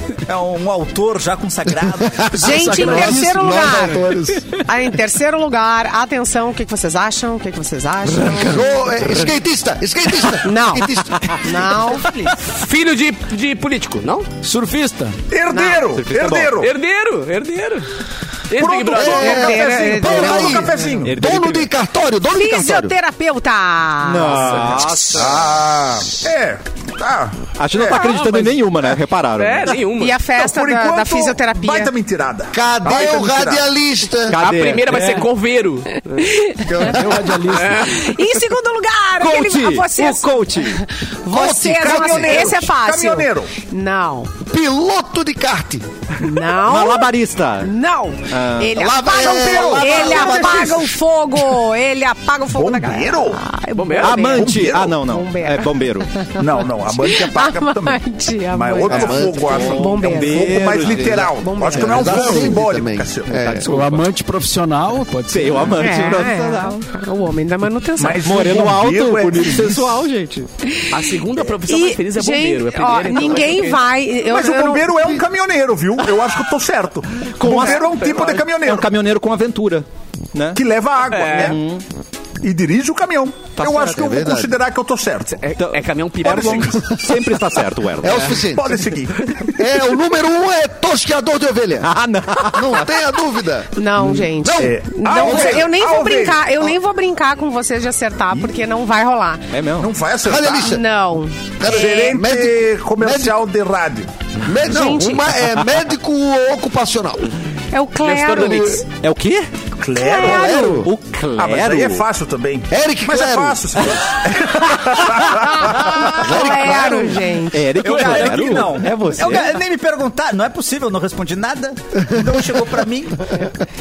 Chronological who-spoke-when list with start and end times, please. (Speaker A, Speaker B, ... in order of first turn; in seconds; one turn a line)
Speaker A: 0.2-2.5
Speaker B: 2.0-4.4
Speaker C: 2.3-4.1
Speaker D: 2.4-4.6
Speaker C: 4.7-8.7
Speaker B: 8.1-11.4
Speaker C: 10.4-12.1
Speaker A: 11.9-12.3
Speaker E: 12.4-14.3
Speaker D: 14.4-15.2
Speaker F: 15.3-16.7
Speaker C: 15.5-15.8
Speaker G: 15.9-16.6
Speaker E: 16.6-17.9
Speaker E: 18.5-19.6
Speaker F: 18.5-21.2
Speaker B: 18.9-22.9
Speaker C: 19.2-20.7
Speaker G: 21.0-21.7
Speaker C: 22.3-25.2
Speaker G: 24.0-25.6
Speaker F: 25.1-28.0
Speaker G: 27.5-29.8
Speaker D: 27.9-28.6
Speaker E: 29.4-30.2
Speaker C: 30.0-31.9
Speaker F: 30.3-33.6
Speaker B: 32.5-34.4
Speaker G: 34.3-35.2
Speaker E: 34.3-36.4
Speaker D: 34.9-35.3
Speaker C: 36.1-36.9
Speaker B: 36.6-37.5
Speaker D: 36.8-37.9
Speaker E: 37.5-38.1
Speaker C: 37.7-44.3
Speaker G: 39.2-40.8
Speaker F: 41.3-43.5
Speaker B: 41.7-42.5
Speaker B: 44.4-45.9
Speaker C: 46.2-62.5
Speaker G: 46.6-47.7
Speaker G: 48.3-48.8
Speaker B: 48.8-50.7
Speaker F: 49.1-51.0
Speaker F: 52.5-53.4
Speaker E: 53.8-54.3
Speaker G: 54.0-56.3
Speaker F: 54.3-55.0
Speaker F: 56.4-63.4
Speaker B: 58.9-59.4
Speaker G: 58.9-61.4
Speaker B: 61.7-63.6
Speaker G: 62.0-62.3
Speaker G: 63.3-64.1
Speaker D: 63.6-65.9
Speaker G: 65.3-66.8
Speaker C: 65.8-68.2
Speaker F: 68.0-70.0
Speaker G: 68.2-70.5
Speaker E: 70.9-73.8
Speaker C: 71.7-74.9
Speaker F: 74.3-78.9
Speaker G: 77.4-78.0
Speaker E: 77.4-78.4
Speaker G: 78.5-80.6
Speaker F: 80.5-81.6
Speaker E: 81.1-81.5
Speaker G: 81.3-81.8
Speaker F: 82.4-85.5
Speaker G: 83.6-83.8
Speaker B: 83.6-84.5
Speaker E: 85.3-87.0
Speaker G: 85.6-88.5
Speaker B: 88.0-88.8
Speaker F: 88.3-89.3
Speaker B: 89.5-91.9
Speaker G: 91.8-92.9
Speaker B: 92.5-95.7
Speaker C: 93.8-99.4
Speaker F: 94.6-96.7
Speaker G: 99.5-99.9
Speaker F: 99.8-100.8
Speaker B: 100.2-100.8
Speaker C: 100.5-102.1
Speaker B: 101.6-103.4
Speaker F: 101.6-104.1
Speaker B: 104.4-107.3
Speaker C: 104.7-105.3
Speaker C: 107.7-108.8
Speaker B: 108.1-108.8
Speaker G: 108.9-109.5
Speaker F: 109.8-110.8
Speaker C: 110.0-110.8
Speaker B: 110.2-110.9
Speaker G: 110.7-112.0
Speaker F: 111.4-116.2
Speaker B: 112.7-114.0
Speaker C: 115.4-117.7
Speaker B: 116.2-117.2
Speaker G: 116.4-117.0
Speaker G: 117.5-119.6
Speaker A: 117.8-123.5
Speaker D: 118.1-118.4